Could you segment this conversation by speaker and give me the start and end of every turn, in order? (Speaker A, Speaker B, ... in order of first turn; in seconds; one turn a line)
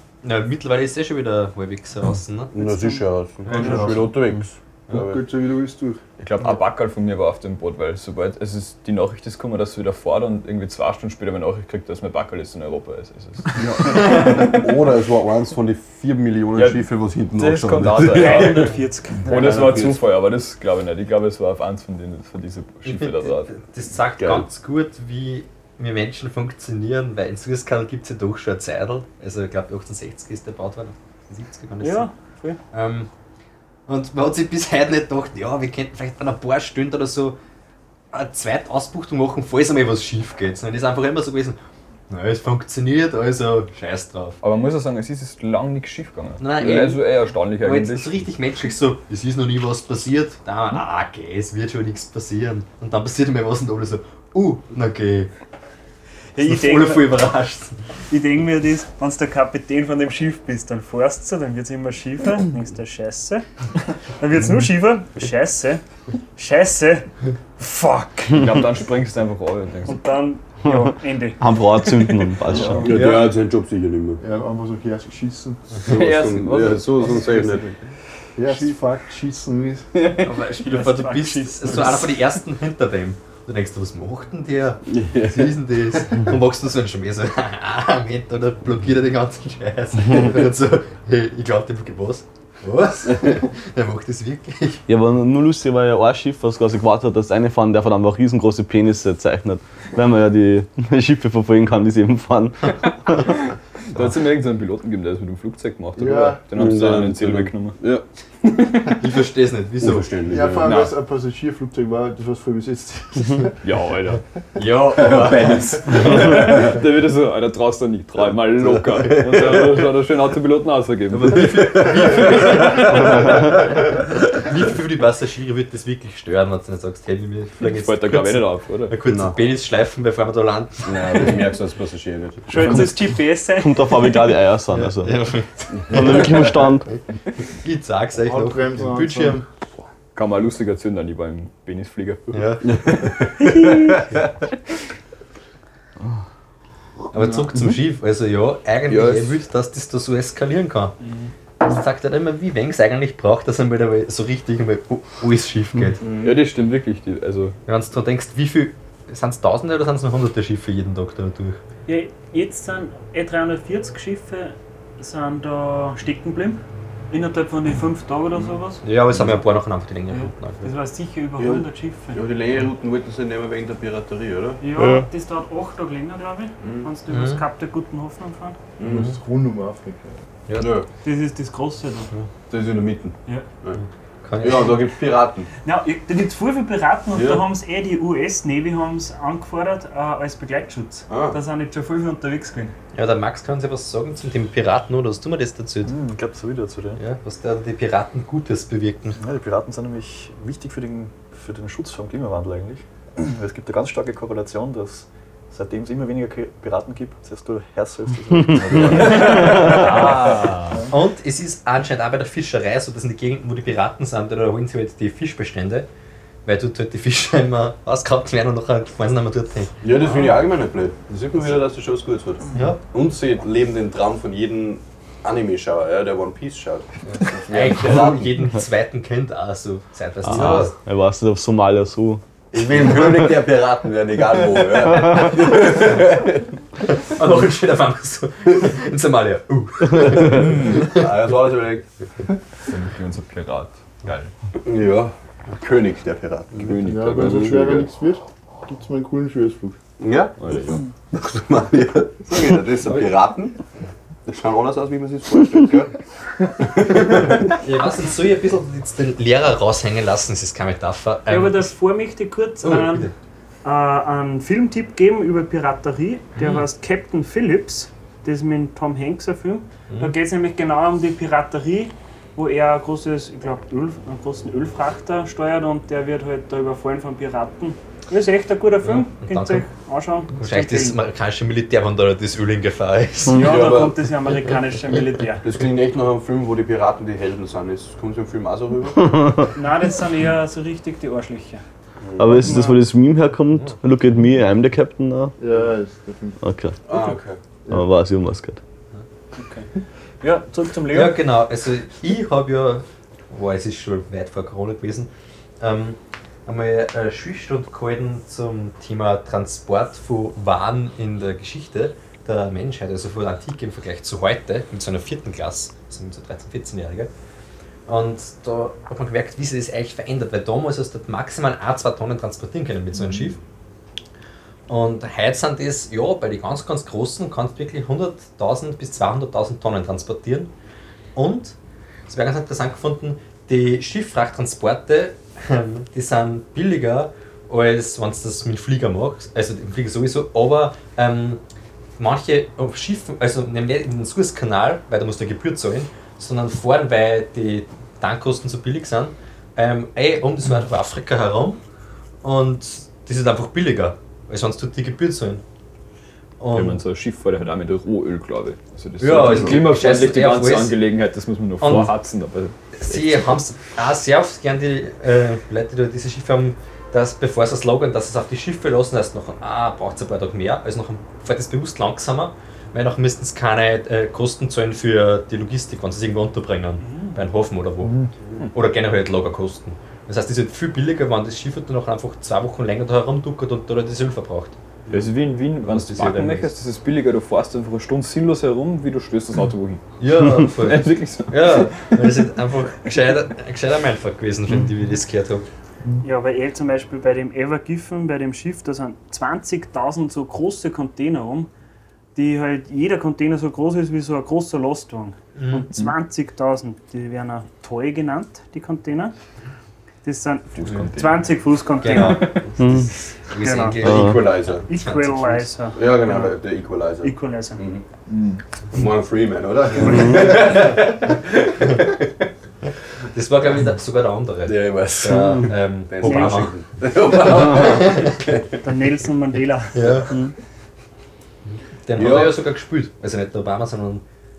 Speaker A: 0.2-2.5
Speaker B: 2.5-5.2
Speaker C: 2.6-3.9
Speaker D: 3.5-4.2
Speaker D: 4.9-6.0
Speaker E: 6.2-13.6
Speaker B: 13.6-18.8
Speaker E: 16.6-23.5
Speaker C: 18.1-19.7
Speaker B: 19.3-20.0
Speaker A: 22.9-32.1
Speaker C: 31.8-32.6
Speaker A: 32.7-33.1
Speaker A: 33.9-37.4
Speaker A: 38.1-41.6
Speaker A: 42.1-44.4
Speaker E: 44.4-48.3
Speaker A: 46.4-47.0
Speaker A: 47.6-55.3
Speaker C: 56.4-57.2
Speaker A: 56.4-57.8
Speaker C: 58.1-63.5
Speaker C: 64.2-65.8
Speaker C: 66.4-68.5
Speaker E: 68.3-70.0
Speaker C: 69.8-71.5
Speaker F: 70.7-73.0
Speaker D: 72.7-73.1
Speaker B: 72.8-74.2
Speaker A: 72.9-73.3
Speaker D: 74.2-75.8
Speaker B: 75.8-77.8
Speaker E: 75.9-77.7
Speaker D: 78.4-80.0
Speaker A: 80.2-94.8
Speaker C: 80.6-82.1
Speaker B: 84.9-85.6
Speaker F: 94.9-103.1
Speaker E: 103.9-107.8
Speaker D: 106.0-106.4
Speaker B: 106.5-108.0
Speaker A: 108.9-110.1
Speaker B: 109.8-110.7
Speaker D: 110.3-113.6
Speaker E: 110.6-111.0
Speaker E: 113.6-114.2
Speaker A: 114.6-116.6
Speaker B: 115.0-116.7
Speaker E: 115.4-123.2
Speaker B: 118.6-119.8
Speaker A: 121.1-131.4
Speaker B: 121.4-123.3
Speaker E: 127.6-128.9
Speaker B: 129.1-129.4
Speaker B: 130.9-132.8
Speaker C: 132.5-134.2
Speaker E: 132.6-132.9
Speaker F: 133.6-135.2
Speaker A: 134.7-137.0
Speaker B: 135.8-136.5
Speaker F: 135.9-136.9
Speaker A: 137.6-139.4
Speaker D: 138.2-139.4
Speaker E: 140.1-142.3
Speaker A: 142.3-142.7
Speaker B: 142.6-144.2
Speaker C: 143.4-144.1
Speaker A: 147.1-150.9
Speaker B: 148.9-149.3
Speaker C: 151.0-151.3
Speaker A: 151.6-156.0
Speaker B: 156.0-156.4
Speaker E: 156.2-157.6
Speaker A: 157.7-161.6
Speaker C: 161.9-166.6
Speaker C: 167.1-168.8
Speaker A: 168.8-170.7
Speaker C: 170.1-172.2
Speaker B: 171.4-174.6
Speaker C: 174.6-178.6
Speaker G: 174.7-175.1
Speaker B: 176.6-176.9
Speaker A: 177.1-177.4
Speaker B: 178.8-179.1
Speaker A: 178.8-179.2
Speaker D: 179.0-180.2
Speaker B: 180.6-180.9
Speaker C: 181.0-182.1
Speaker B: 182.5-183.8
Speaker A: 183.8-184.8
Speaker B: 184.4-185.5
Speaker C: 185.6-192.7
Speaker B: 187.1-187.5
Speaker B: 191.1-191.4
Speaker A: 192.9-195.9
Speaker G: 195.9-197.0
Speaker A: 197.0-199.2
Speaker G: 199.2-210.2
Speaker E: 208.8-210.9
Speaker A: 210.9-215.9
Speaker A: 216.4-220.2
Speaker B: 219.8-228.3
Speaker A: 222.5-222.8
Speaker A: 227.0-230.7
Speaker F: 230.3-232.2
Speaker B: 230.3-230.7
Speaker B: 232.5-236.4
Speaker A: 236.8-241.1
Speaker B: 240.3-241.9
Speaker E: 242.6-244.3
Speaker B: 244.6-247.6
Speaker E: 246.6-247.9
Speaker D: 246.8-249.8
Speaker B: 250.0-250.4
Speaker E: 250.4-250.8
Speaker B: 251.1-253.6
Speaker B: 254.3-255.9
Speaker B: 256.6-257.5
Speaker A: 257.6-261.6
Speaker C: 261.3-263.1
Speaker A: 262.6-263.1
Speaker C: 263.6-281.0
Speaker A: 269.9-270.1
Speaker A: 278.8-279.7
Speaker A: 280.4-283.6
Speaker C: 283.3-285.5
Speaker B: 283.4-284.1
Speaker B: 285.4-289.4
Speaker C: 289.6-291.6
Speaker B: 292.0-292.4
Speaker F: 292.2-295.3
Speaker C: 292.3-292.8
Speaker D: 295.4-296.4
Speaker F: 296.4-296.8
Speaker B: 296.9-297.4
Speaker F: 297.7-298.6
Speaker C: 299.4-299.7
Speaker C: 300.2-301.2
Speaker A: 300.9-317.1
Speaker A: 317.9-323.4
Speaker A: 324.7-330.5
Speaker A: 331.1-331.6
Speaker A: 332.1-341.4
Speaker A: 342.0-351.6
Speaker A: 352.2-355.4
Speaker A: 356.4-356.8
Speaker E: 356.5-363.2
Speaker A: 359.0-360.8
Speaker B: 359.2-359.6
Speaker A: 361.6-361.9
Speaker A: 362.7-378.0
Speaker C: 376.8-377.2
Speaker A: 378.5-384.6
Speaker E: 384.9-389.9
Speaker A: 385.7-386.5
Speaker A: 390.0-395.5
Speaker E: 390.4-392.2
Speaker C: 396.0-401.5
Speaker C: 402.1-409.1
Speaker A: 405.4-405.7
Speaker C: 410.0-412.5
Speaker E: 410.6-411.4
Speaker A: 411.8-415.5
Speaker F: 412.6-412.9
Speaker C: 413.3-414.0
Speaker F: 413.8-414.2
Speaker B: 413.8-414.7
Speaker C: 414.6-416.3
Speaker B: 415.8-417.8
Speaker C: 417.0-417.6
Speaker E: 418.1-418.4
Speaker B: 418.7-422.1
Speaker F: 419.8-420.1
Speaker A: 420.0-420.6
Speaker C: 420.0-420.4
Speaker A: 423.1-426.5
Speaker B: 424.5-428.5
Speaker F: 425.1-425.4
Speaker C: 426.0-426.5
Speaker A: 427.5-428.0
Speaker C: 428.6-430.2
Speaker A: 429.7-430.2
Speaker A: 431.5-434.0
Speaker B: 431.9-432.4